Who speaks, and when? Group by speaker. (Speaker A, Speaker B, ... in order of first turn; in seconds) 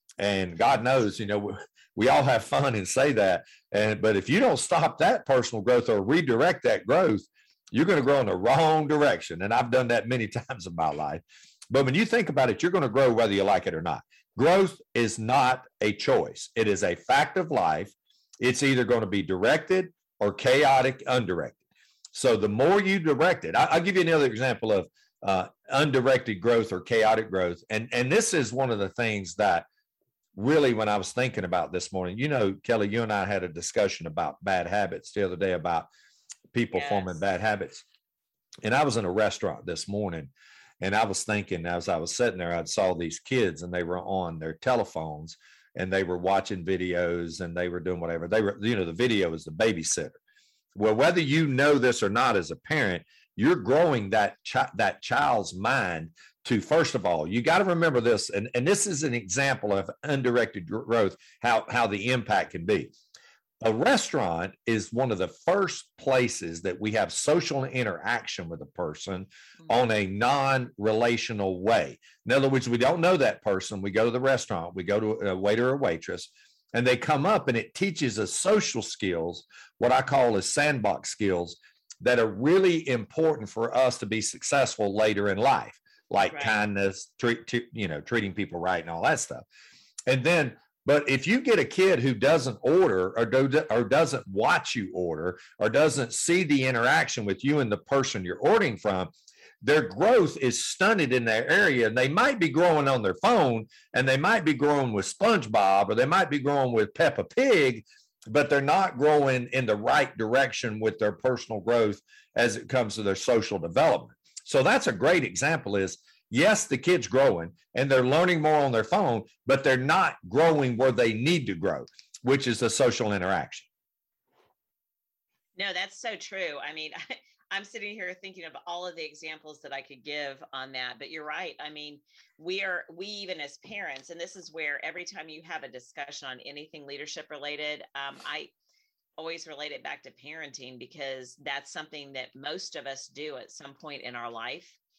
Speaker A: 0.2-21.6, 22.1-29.6, 30.3-35.9, 36.5-37.8, 38.6-50.2, 50.7-62.9, 63.6-89.4, 90.1-99.1, 99.6-123.7
Speaker B: 36.7-37.2, 86.2-86.6, 125.5-127.0, 127.5-138.5, 139.2-144.8